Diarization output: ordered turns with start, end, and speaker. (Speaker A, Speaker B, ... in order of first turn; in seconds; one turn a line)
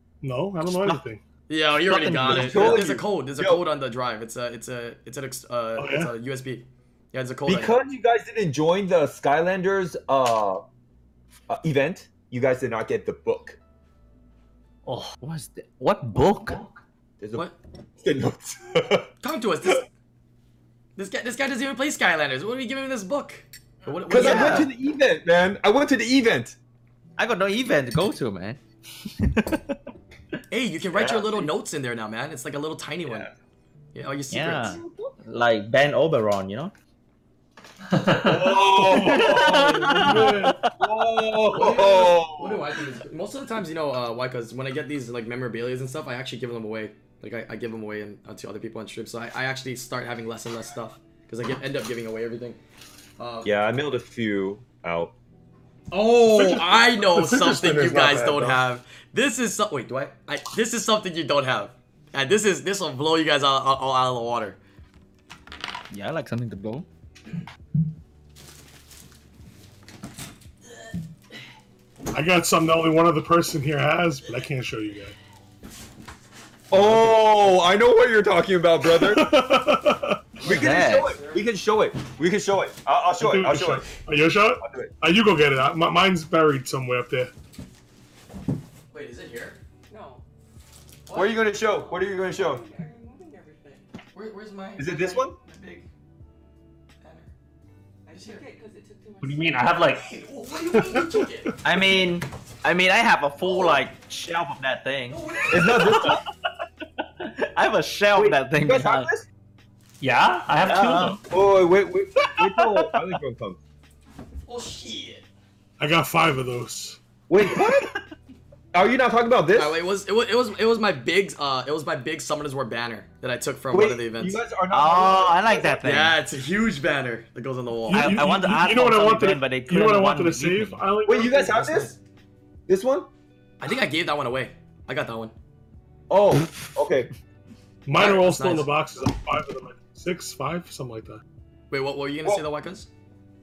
Speaker A: 0.2-1.2
Speaker B: 0.6-1.0
Speaker C: 1.5-7.8
Speaker B: 1.9-2.9
Speaker D: 2.2-3.6
Speaker A: 5.8-6.1
Speaker D: 7.5-10.6
Speaker D: 11.5-13.6
Speaker E: 14.8-15.1
Speaker B: 15.2-16.6
Speaker D: 17.2-17.5
Speaker D: 18.0-19.1
Speaker C: 19.2-19.9
Speaker C: 20.9-24.7
Speaker D: 24.1-26.6
Speaker B: 24.1-24.7
Speaker B: 27.2-28.6
Speaker B: 29.1-29.8
Speaker C: 30.5-33.3
Speaker D: 30.9-31.5
Speaker D: 33.0-33.3
Speaker C: 33.9-34.8
Speaker B: 34.3-36.7
Speaker D: 34.8-35.1
Speaker E: 38.0-38.3
Speaker D: 38.0-42.7
Speaker A: 38.8-40.6
Speaker B: 38.8-40.7
Speaker C: 41.5-52.6
Speaker C: 53.2-53.5
Speaker D: 53.4-55.1
Speaker C: 55.9-64.6
Speaker A: 56.3-58.6
Speaker B: 65.9-66.8
Speaker A: 72.1-75.2
Speaker D: 76.7-79.3
Speaker A: 78.8-80.3
Speaker C: 80.4-81.4
Speaker D: 80.4-83.9
Speaker B: 80.5-81.1
Speaker A: 83.2-87.3
Speaker D: 84.6-84.9
Speaker C: 88.9-90.2
Speaker C: 91.1-91.8
Speaker D: 91.1-92.7
Speaker C: 94.1-95.9
Speaker D: 94.8-95.3
Speaker C: 97.0-97.3
Speaker C: 98.1-98.8
Speaker E: 99.2-100.0
Speaker C: 99.9-101.5
Speaker A: 100.7-101.0
Speaker B: 101.6-105.2
Speaker C: 103.5-103.7
Speaker C: 105.1-106.2
Speaker D: 105.5-106.2
Speaker B: 105.7-106.2
Speaker B: 107.0-109.1
Speaker D: 108.1-109.2
Speaker E: 110.0-111.2
Speaker B: 110.6-111.2
Speaker D: 111.3-113.6
Speaker B: 112.2-113.0
Speaker C: 114.5-115.2
Speaker A: 115.8-117.0
Speaker D: 117.3-117.9
Speaker B: 117.4-118.0
Speaker D: 118.7-119.8
Speaker C: 119.5-124.4
Speaker D: 123.7-125.8
Speaker B: 124.7-126.2
Speaker C: 125.8-128.3
Speaker A: 127.9-131.8
Speaker B: 127.9-130.8
Speaker D: 131.1-131.9
Speaker C: 131.5-131.9
Speaker D: 132.7-133.1
Speaker C: 133.6-135.3
Speaker D: 136.1-137.1
Speaker A: 137.8-141.2
Speaker C: 138.0-138.7
Speaker C: 141.7-142.9